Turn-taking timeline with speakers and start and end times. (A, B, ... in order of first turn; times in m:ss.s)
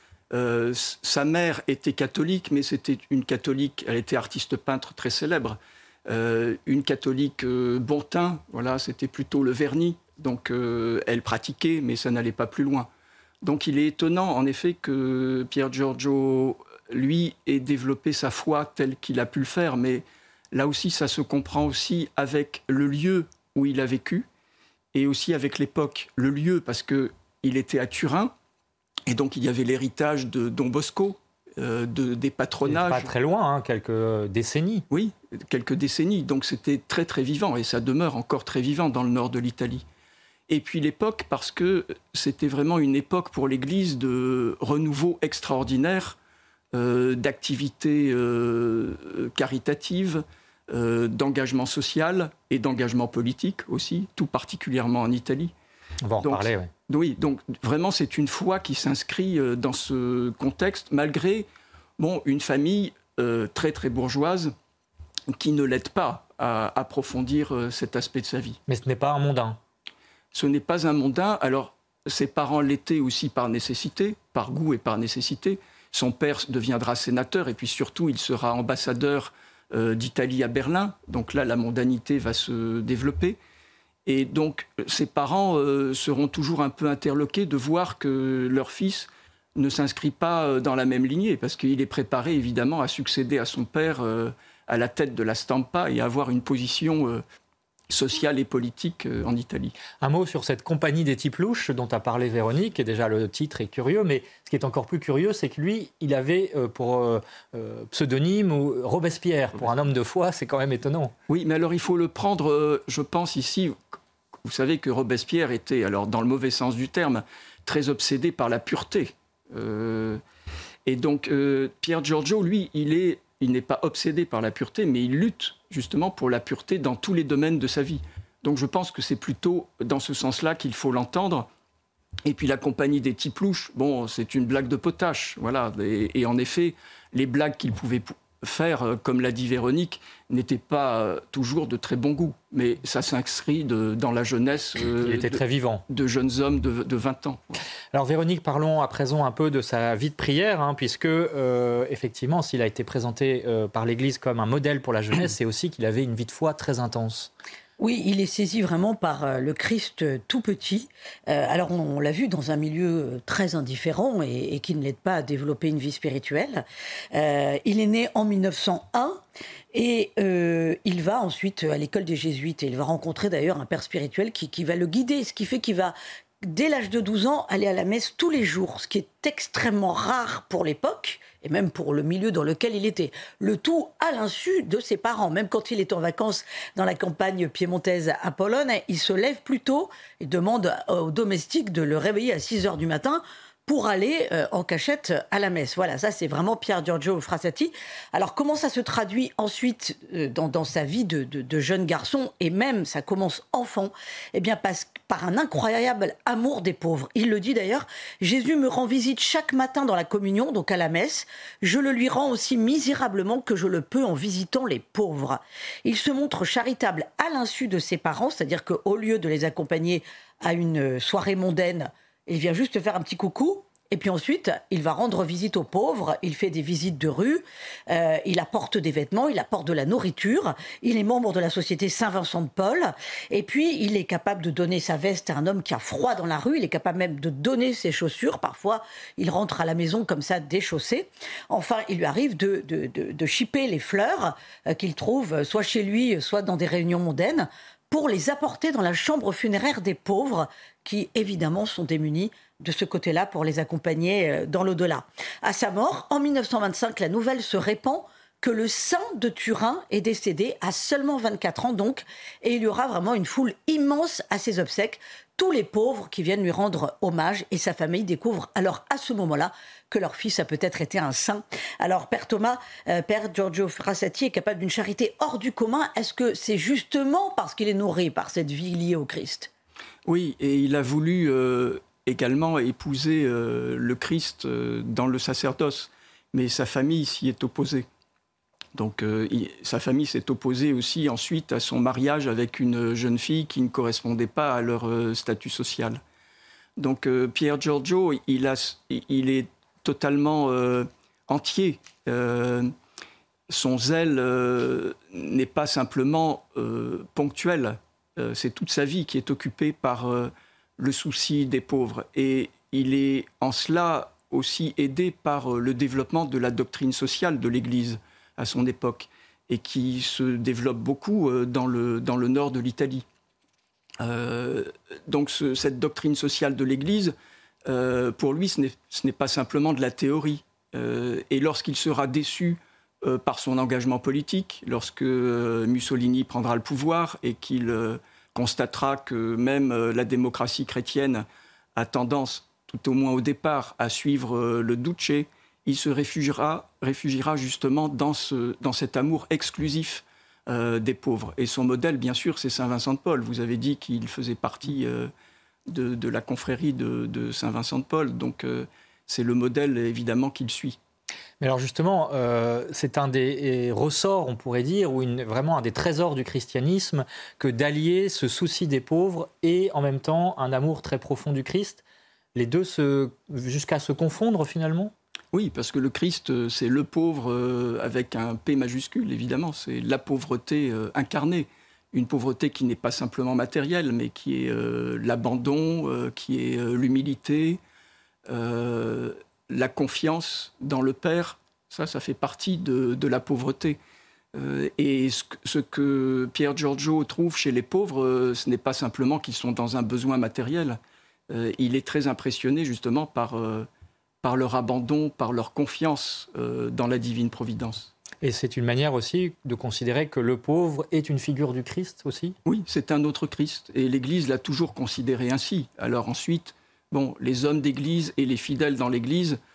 0:00.3-0:12.9 A
0:13.4-0:24.3 A
0:24.9-0:28.3 A
0:29.1-0:33.1 A
0:32.6-0:34.9 B
0:34.9-0:39.8 A
0:40.5-0:46.2 A
0:46.7-0:55.5 A
0:56.0-0:56.7 B
0:56.2-1:01.5 A
1:02.0-1:04.5 A
1:05.3-1:08.6 A
1:08.7-1:09.6 B
1:10.3-1:23.4 A
1:24.1-1:37.2 A
1:37.9-1:39.8 A
1:40.0-1:51.1 B
1:51.3-1:53.8 A
1:54.4-2:00.2 A
2:00.9-2:11.5 A
2:12.2-2:27.6 A
2:25.0-2:25.8 B
2:27.9-2:37.3 B
2:37.8-2:49.2 C
2:49.7-4:39.5 C
4:40.1-4:47.9 A
4:48.7-4:56.0 A
4:56.8-5:02.7 A
5:03.5-5:23.0 A
5:24.0-5:27.1 A
5:27.6-5:55.1 A
5:55.7-6:00.8 A
6:01.4-6:11.8 B
6:12.4-6:14.9 B
6:15.3-6:27.6 A
6:28.3-6:33.8 A
6:34.3-6:40.8 A
6:41.3-6:43.7 A
6:44.2-6:47.9 A
6:48.2-6:52.4 B
6:52.5-6:59.4 A